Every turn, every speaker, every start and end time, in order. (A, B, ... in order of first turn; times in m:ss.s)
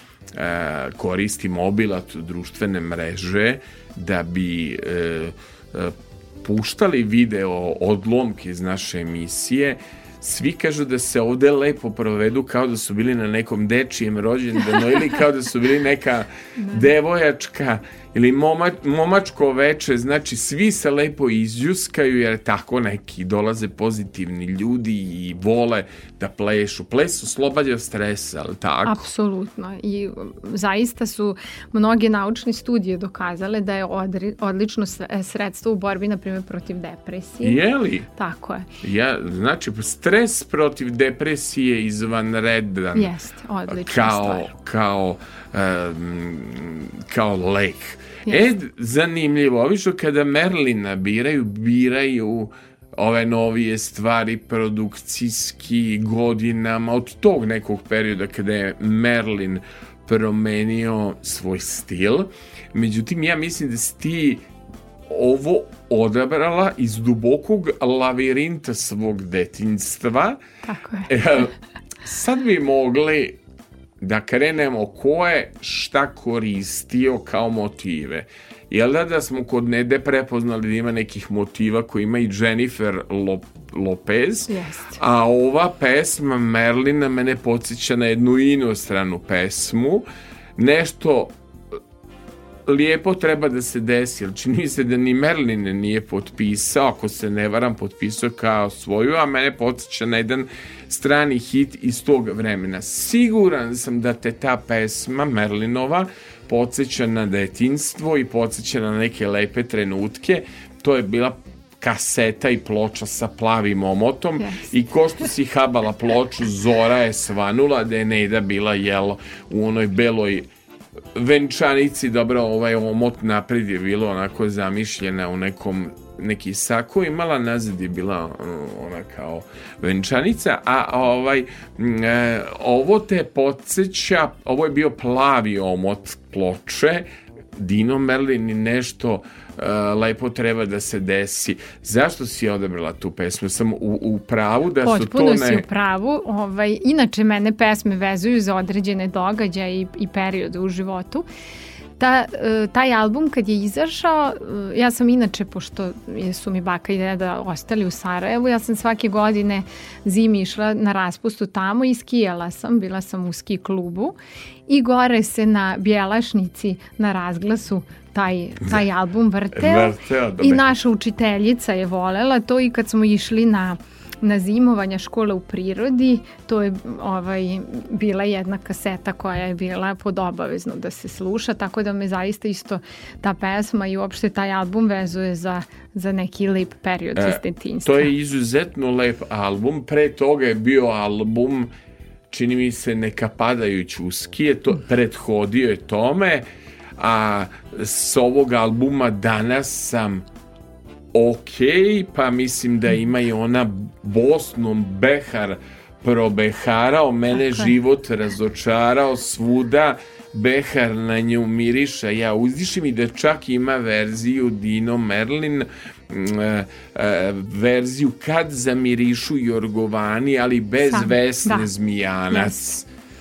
0:00.3-0:29.1 A
0:16.6-0:16.9 B
0:28.8-0:37.6 B
0:37.4-0:38.1 A
0:38.2-0:38.7 B
0:38.8-0:43.1 A
0:43.0-0:44.5 B
0:43.7-1:04.5 A
1:05.1-1:10.4 A
1:10.6-1:11.1 B
1:11.1-1:11.5 A
1:12.0-1:13.4 A
1:14.0-1:31.4 A
1:24.5-1:25.0 B
1:32.7-2:00.5 A
1:54.4-1:54.7 B
2:01.2-2:25.6 A
2:24.8-2:31.3 B
2:32.0-2:44.2 B
2:44.7-3:08.1 B
2:49.6-2:50.7 A
3:07.2-3:11.7 A
3:12.3-3:20.2 A
3:21.1-3:42.9 A
3:40.8-3:41.7 B
3:42.3-3:42.6 B